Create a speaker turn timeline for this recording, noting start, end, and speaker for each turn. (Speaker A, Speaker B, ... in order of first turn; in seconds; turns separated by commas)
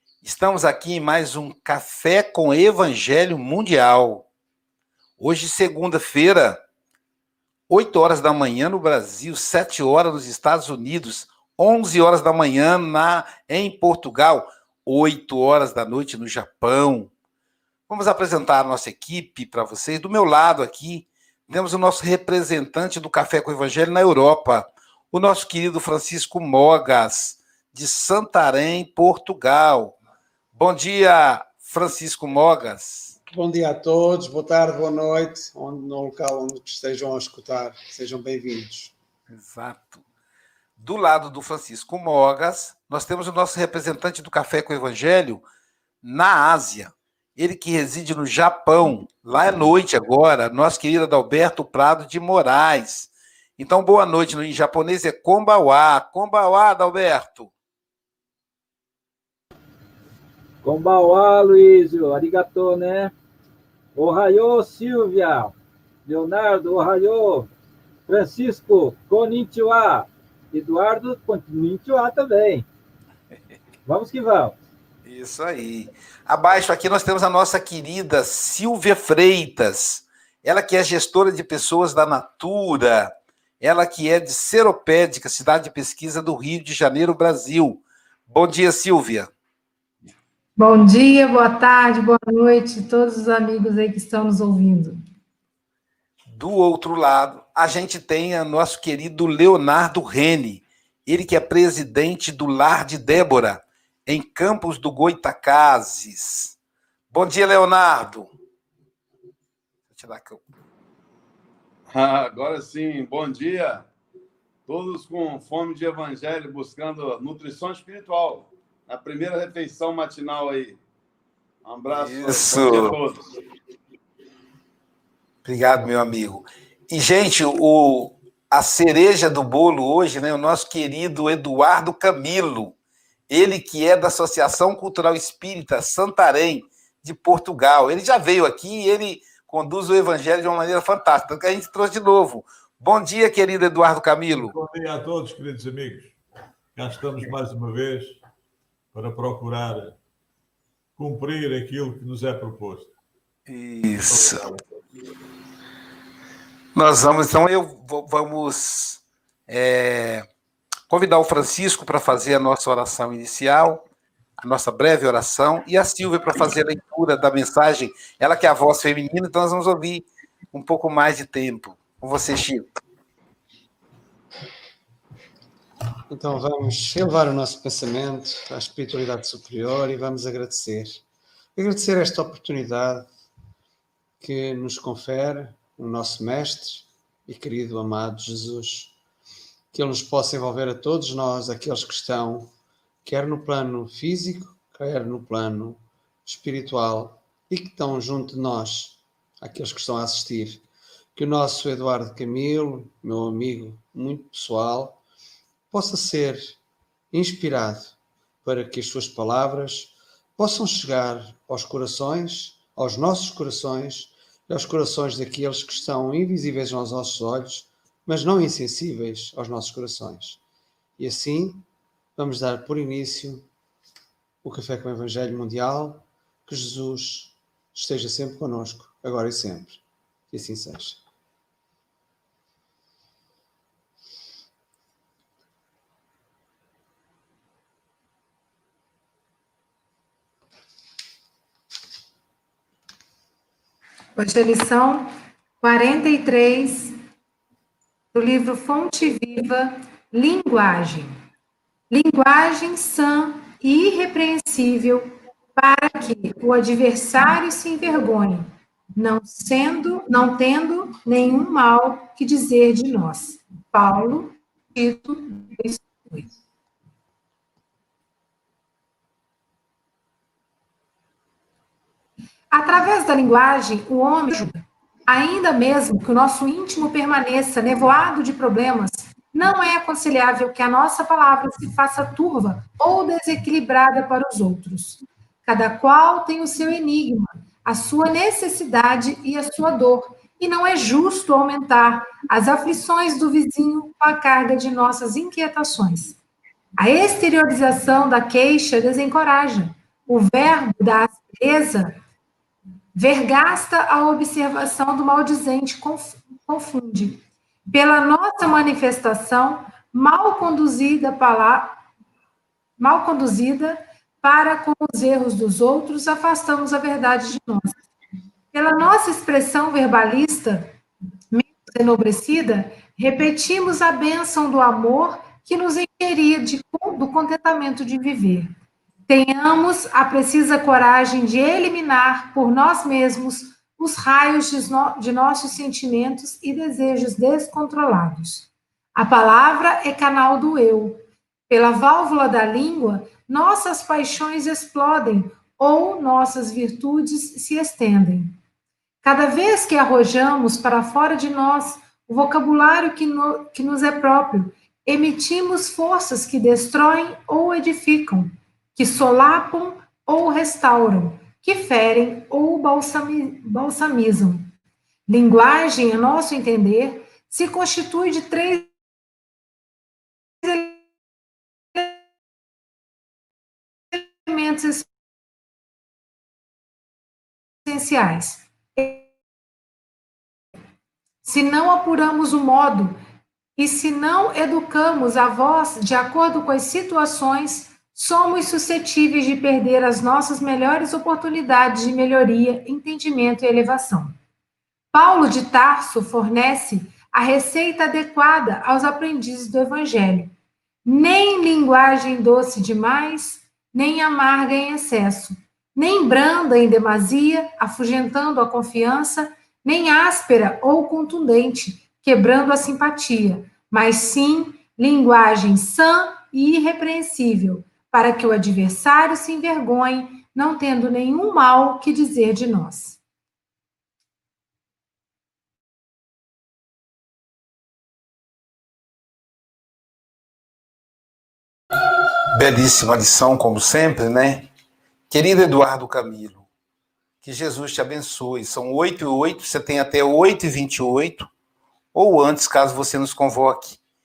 Speaker A: 0.2-4.3, Speaker A: 5.2-6.6, Speaker A: 7.7-17.1, Speaker A: 17.9-29.9, Speaker A: 30.5-33.1, Speaker B: 33.3-38.9, Speaker A: 39.3-40.0, Speaker A: 40.8-45.4, Speaker A: 46.0-57.5, Speaker C: 60.6-63.1, Speaker C: 63.9-67.5, Speaker C: 68.0-72.7, Speaker C: 73.8-74.6, Speaker A: 75.0-89.3, Speaker D: 90.6-95.0, Speaker A: 96.3-106.5, Speaker A: 107.1-108.3, Speaker A: 109.9-110.4, Speaker E: 111.9-113.9, Speaker E: 114.7-120.8, Speaker E: 121.6-123.2, Speaker A: 121.9-123.0, Speaker A: 125.4-132.8, Speaker A: 133.3-144.5, Speaker F: 144.3-146.2, Speaker F: 146.7-148.2, Speaker F: 148.9-150.0, Speaker F: 151.0-152.9, Speaker A: 153.5-154.4, Speaker F: 154.1-154.8, Speaker A: 156.7-160.2, Speaker A: 160.9-163.8, Speaker A: 164.4-172.7, Speaker B: 176.1-181.0, Speaker B: 181.6-183.1, Speaker B: 184.2-188.9, Speaker B: 189.7-192.5, Speaker B: 193.0-205.0, Speaker B: 205.7-206.6, Speaker B: 207.1-220.4, Speaker B: 221.0-223.5, Speaker B: 224.4-231.0, Speaker D: 244.2-245.1, Speaker D: 245.6-247.0, Speaker D: 248.1-251.2, Speaker D: 251.9-266.3, Speaker D: 272.5-296.2, Speaker D: 296.8-302.0, Speaker D: 302.9-311.8, Speaker D: 312.8-317.8, Speaker D: 318.5-320.7, Speaker D: 321.3-328.5, Speaker D: 329.1-348.4, Speaker D: 349.0-364.5, Speaker D: 365.1-368.7, Speaker D: 370.4-370.8, Speaker D: 373.9-374.9, Speaker D: 377.6-379.0, Speaker D: 381.2-383.0, Speaker D: 383.6-394.1, Speaker D: 394.9-400.3, Speaker D: 400.8-423.0, Speaker A: 432.3-434.5, Speaker A: 435.1-436.4, Speaker A: 437.2-441.3, Speaker A: 441.9-443.8